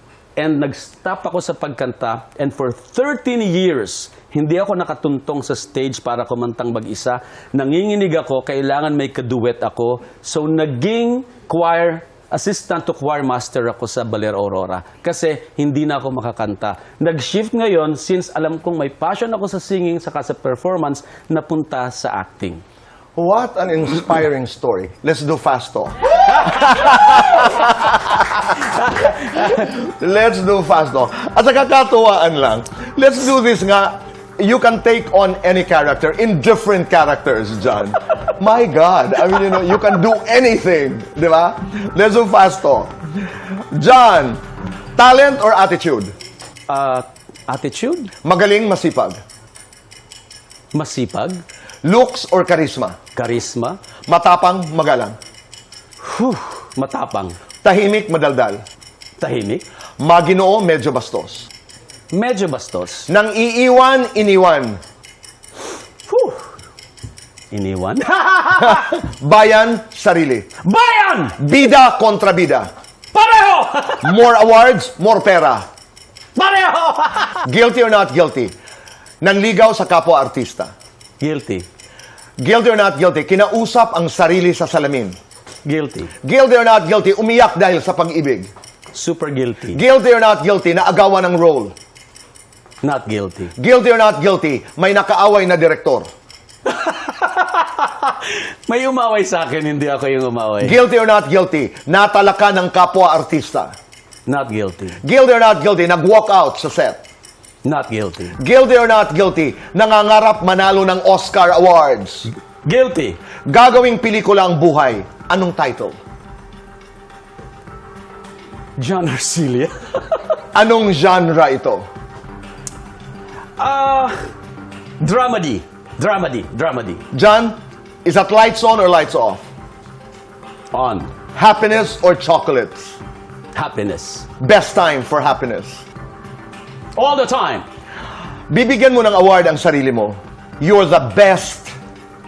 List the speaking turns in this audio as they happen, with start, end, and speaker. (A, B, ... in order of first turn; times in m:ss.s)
0:00.4-0:22.6 A
0:23.2-0:43.0 B
0:28.9-0:29.5 A
0:43.7-0:44.4 B
0:45.0-0:46.1 B
0:46.7-0:48.1 A
0:48.2-0:49.2 B
0:50.7-0:51.4 A
0:51.8-0:53.0 B
0:53.2-0:53.8 A
0:54.1-0:55.2 B
0:56.0-0:57.4 A
0:57.6-0:58.6 B
0:59.2-0:59.6 A
1:00.0-1:01.5 B
1:02.1-1:03.1 A
1:03.1-1:04.8 B
1:06.1-1:06.4 A
1:07.5-1:09.0 A
1:08.5-1:10.5 B
1:10.6-1:11.4 A
1:11.4-1:12.7 B
1:13.1-1:14.2 A
1:14.0-1:15.6 B
1:16.4-1:17.5 A
1:17.4-1:18.5 B
1:19.2-1:20.7 B
1:21.2-1:21.6 A
1:22.4-1:25.2 B
1:25.6-1:26.1 A
1:26.2-1:28.5 B
1:28.9-1:29.8 A
1:29.7-1:31.7 B
1:32.8-1:33.5 A
1:33.6-1:36.1 B
1:36.6-1:40.8 A
1:40.6-1:43.7 B
1:44.3-1:45.0 A
1:45.0-1:47.0 B
1:47.6-1:48.4 A
1:48.4-1:52.3 B
1:52.6-1:53.2 A
1:53.5-1:56.0 B
1:58.8-2:00.3 A
2:00.5-2:01.8 B
2:03.6-2:04.2 A
2:05.0-2:07.0 A
2:07.1-2:09.4 B
2:10.7-2:11.1 A
2:11.3-2:13.0 B
2:13.5-2:14.3 A
2:14.4-2:15.8 B
2:16.9-2:17.6 A
2:18.5-2:21.7 B